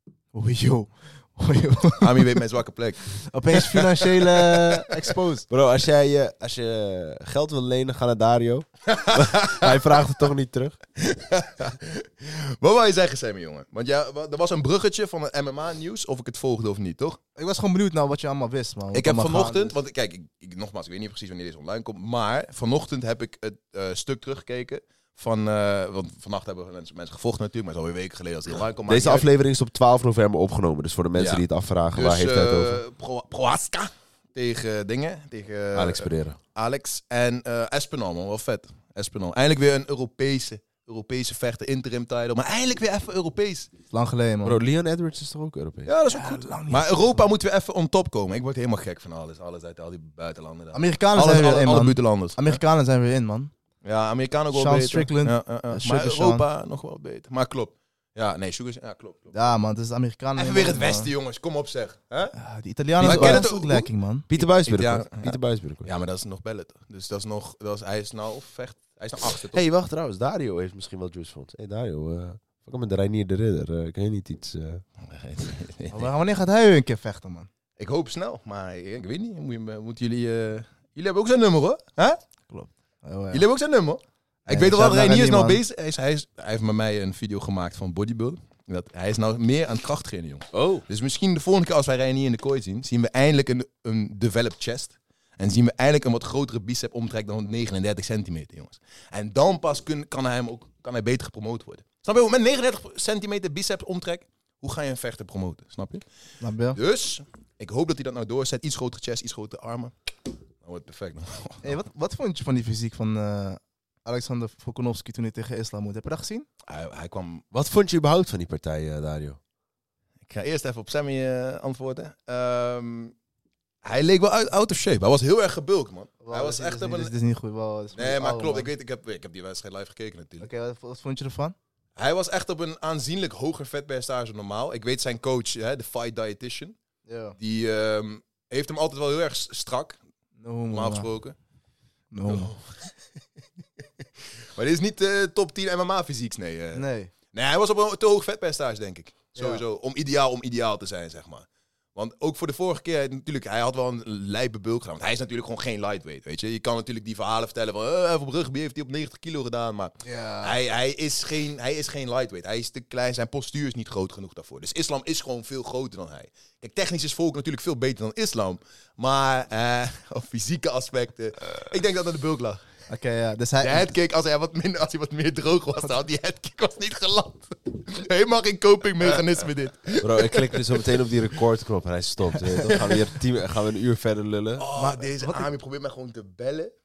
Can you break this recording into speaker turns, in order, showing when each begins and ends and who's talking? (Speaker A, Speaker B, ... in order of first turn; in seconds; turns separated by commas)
Speaker A: 0.3-2.4, Speaker B: 2.0-4.8, Speaker A: 3.1-5.5, Speaker C: 5.5-10.8, Speaker B: 8.9-9.8, Speaker B: 11.0-17.2, Speaker A: 17.4-19.7, Speaker B: 18.9-29.2, Speaker C: 28.9-32.8, Speaker B: 31.1-43.7, Speaker C: 35.7-36.4, Speaker A: 43.9-44.6, Speaker C: 44.4-45.9, Speaker B: 45.9-52.4, Speaker A: 46.1-47.2, Speaker A: 50.7-53.5, Speaker B: 53.8-59.3, Speaker A: 54.5-56.4, Speaker A: 59.3-61.1, Speaker B: 60.4-62.3, Speaker A: 62.3-64.3, Speaker B: 63.0-69.6, Speaker C: 63.0-63.5, Speaker C: 64.3-65.9, Speaker C: 69.5-74.8, Speaker B: 75.0-76.1, Speaker A: 75.9-77.5, Speaker B: 77.8-82.2, Speaker A: 82.5-83.4, Speaker B: 83.3-106.0, Speaker A: 84.5-85.6, Speaker C: 90.5-90.8, Speaker A: 106.4-106.8, Speaker B: 106.7-109.9, Speaker B: 110.6-111.6, Speaker A: 111.6-116.5, Speaker B: 116.7-117.4, Speaker C: 117.5-119.4, Speaker B: 120.3-123.1, Speaker B: 123.8-127.1, Speaker A: 126.2-128.7, Speaker B: 127.9-130.5, Speaker A: 130.4-131.6, Speaker B: 132.0-136.8, Speaker A: 137.1-137.3, Speaker B: 137.4-140.0, Speaker A: 140.4-141.1, Speaker B: 140.7-141.3, Speaker A: 142.1-142.5, Speaker B: 142.2-142.9, Speaker B: 144.6-172.6, Speaker A: 146.7-147.1, Speaker A: 149.3-149.6, Speaker A: 160.0-160.5, Speaker A: 172.9-173.9, Speaker B: 173.6-180.8, Speaker C: 180.0-184.6, Speaker B: 182.7-183.0, Speaker B: 184.6-186.7, Speaker A: 184.8-185.5